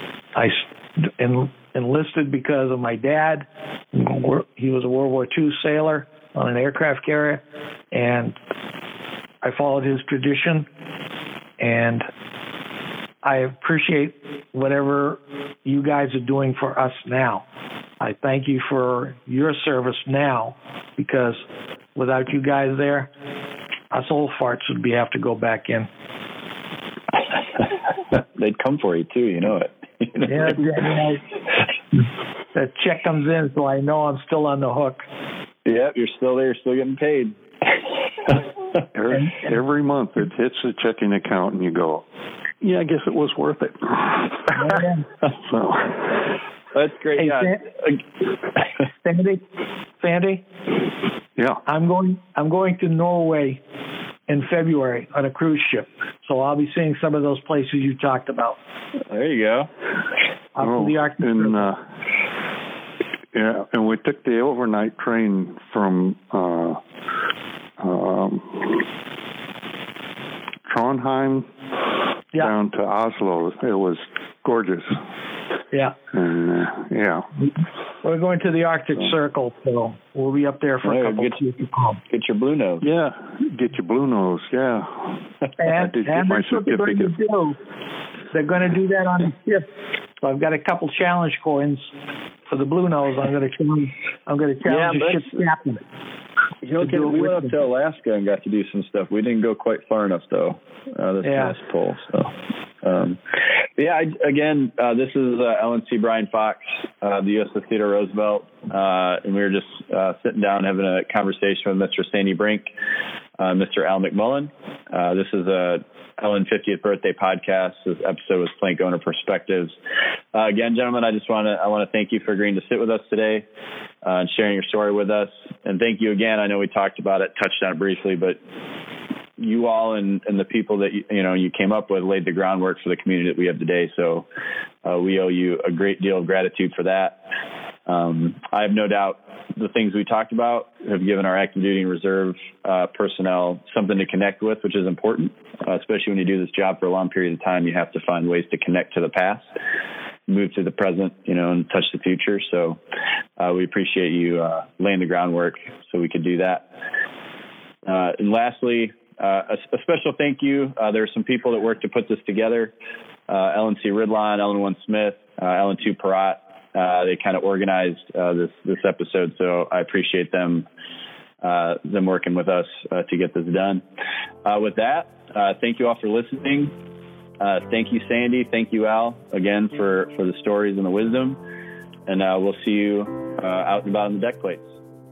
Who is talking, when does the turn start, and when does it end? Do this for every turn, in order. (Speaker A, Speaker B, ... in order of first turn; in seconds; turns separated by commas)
Speaker A: 0.3-8.3, Speaker A: 9.4-10.7, Speaker A: 11.6-12.1, Speaker A: 13.2-17.4, Speaker A: 18.0-21.4, Speaker A: 21.9-23.1, Speaker A: 23.9-25.9, Speaker B: 27.6-30.9, Speaker A: 30.3-31.2, Speaker A: 32.5-35.0, Speaker B: 35.6-37.4, Speaker C: 38.9-42.0, Speaker C: 42.6-46.3, Speaker A: 44.5-45.0, Speaker B: 46.7-48.0, Speaker A: 47.2-47.6, Speaker A: 49.0-49.4, Speaker A: 50.0-50.4, Speaker C: 51.4-51.6, Speaker A: 51.6-53.6, Speaker A: 54.3-58.6, Speaker B: 59.1-59.7, Speaker A: 60.5-61.7, Speaker C: 60.6-61.8, Speaker C: 63.3-66.8, Speaker C: 67.8-68.8, Speaker C: 70.7-71.5, Speaker C: 72.3-75.0, Speaker C: 76.1-77.3, Speaker A: 78.0-82.0, Speaker B: 80.8-81.4, Speaker B: 82.1-82.8, Speaker C: 82.8-85.1, Speaker A: 85.6-87.6, Speaker C: 85.7-87.2, Speaker A: 88.3-89.6, Speaker A: 90.2-91.9, Speaker A: 92.5-95.8, Speaker B: 94.7-95.4, Speaker B: 96.6-103.2, Speaker A: 96.8-97.5, Speaker A: 101.2-101.5, Speaker B: 103.8-112.7, Speaker B: 113.4-119.7, Speaker B: 120.3-123.4, Speaker B: 124.0-128.4, Speaker B: 129.4-134.2, Speaker B: 134.8-137.2, Speaker B: 137.9-149.5, Speaker B: 150.3-152.8, Speaker B: 153.4-156.7, Speaker B: 157.8-162.7, Speaker B: 163.3-170.7, Speaker B: 171.4-173.8, Speaker B: 174.4-176.7, Speaker B: 177.4-181.4, Speaker B: 182.1-184.6